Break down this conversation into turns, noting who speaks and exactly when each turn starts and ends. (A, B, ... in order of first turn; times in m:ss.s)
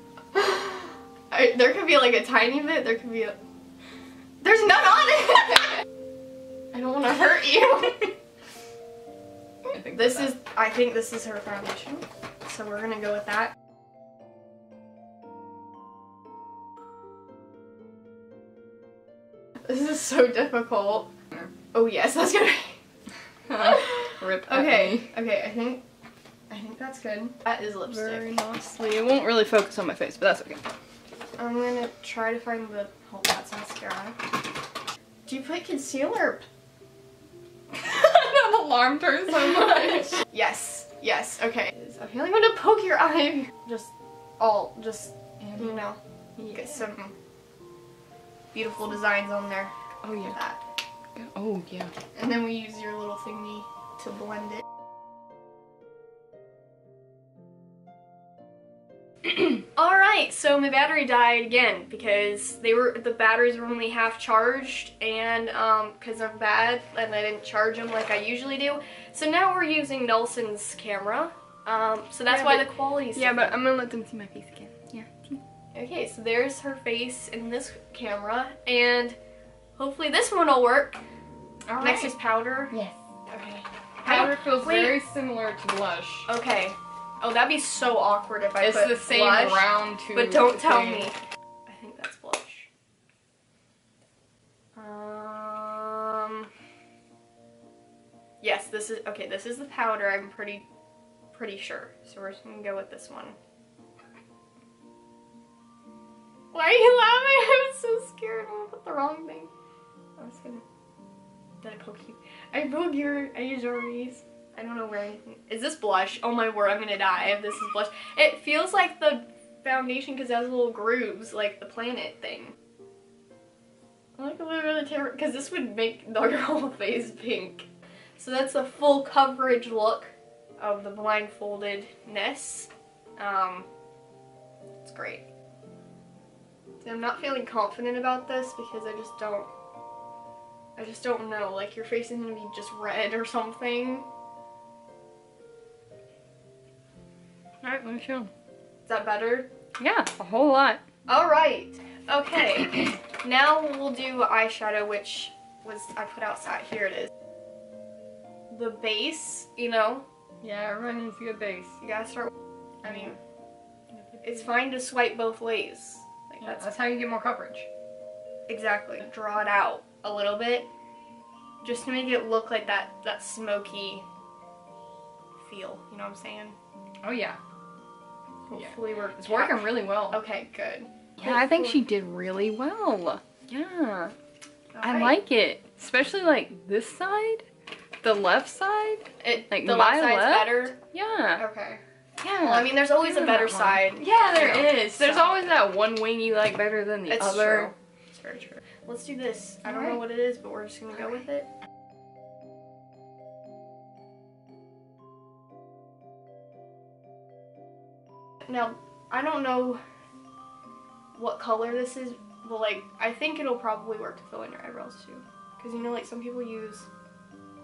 0:00.3-0:03.4 A
0:04.4-0:05.8 A
0:06.7-0:08.1 A
0:09.7-0:10.2 B
0:09.9-0:13.5 A
0:19.6-0:21.1 A
0:21.7-0:22.8 A
0:23.5-0:25.1 B
0:23.6-0:25.8 A
0:26.5-0:28.4 A
0:27.9-0:30.6 B
0:31.4-0:34.2 A
0:35.3-0:36.4 A
0:37.7-0:40.2 B
0:40.2-0:47.2 A
0:45.4-0:45.8 B
0:46.4-0:46.8 B
0:48.5-0:50.6 A
0:50.0-0:50.4 B
0:51.1-0:51.9 B
0:52.2-0:54.6 A
0:59.7-1:13.6 A
1:12.3-1:15.4 B
1:15.7-1:19.2 A
1:19.8-1:21.0 A
1:21.7-1:22.1 B
1:21.8-1:22.7 A
1:22.7-1:23.0 B
1:23.3-1:25.0 A
1:24.0-1:26.3 B
1:26.3-1:32.7 A
1:28.6-1:31.1 B
1:34.8-1:36.5 A
1:38.4-1:40.7 A
1:41.3-1:43.4 A
1:46.5-1:49.5 A
1:50.2-1:50.6 A
1:51.6-2:02.6 A
2:04.2-2:13.7 A
2:14.8-2:15.2 A
2:16.8-2:19.5 A
2:20.8-2:24.1 A
2:27.6-2:28.3 B
2:28.9-2:29.5 A
2:29.8-2:30.8 B
2:31.1-2:37.1 A
2:38.5-2:40.1 A
2:40.4-2:41.8 B
2:41.8-2:42.3 A
2:42.8-2:43.2 A
2:42.8-2:43.2 B
2:44.2-2:46.7 A
2:46.4-2:47.7 B
2:48.5-2:50.7 A
2:51.6-2:54.0 A
2:55.4-2:56.6 A
2:57.0-2:57.4 B
2:58.5-3:01.8 A
2:58.6-3:00.2 B
3:01.2-3:04.2 B
3:04.7-3:05.2 A
3:04.8-3:07.5 B
3:08.0-3:11.4 B
3:09.2-3:10.8 A
3:11.4-3:11.8 A
3:12.2-3:17.7 B
3:12.4-3:15.3 A
3:17.1-3:21.5 A
3:19.6-3:20.0 B
3:28.4-3:29.8 A
3:31.2-3:36.9 A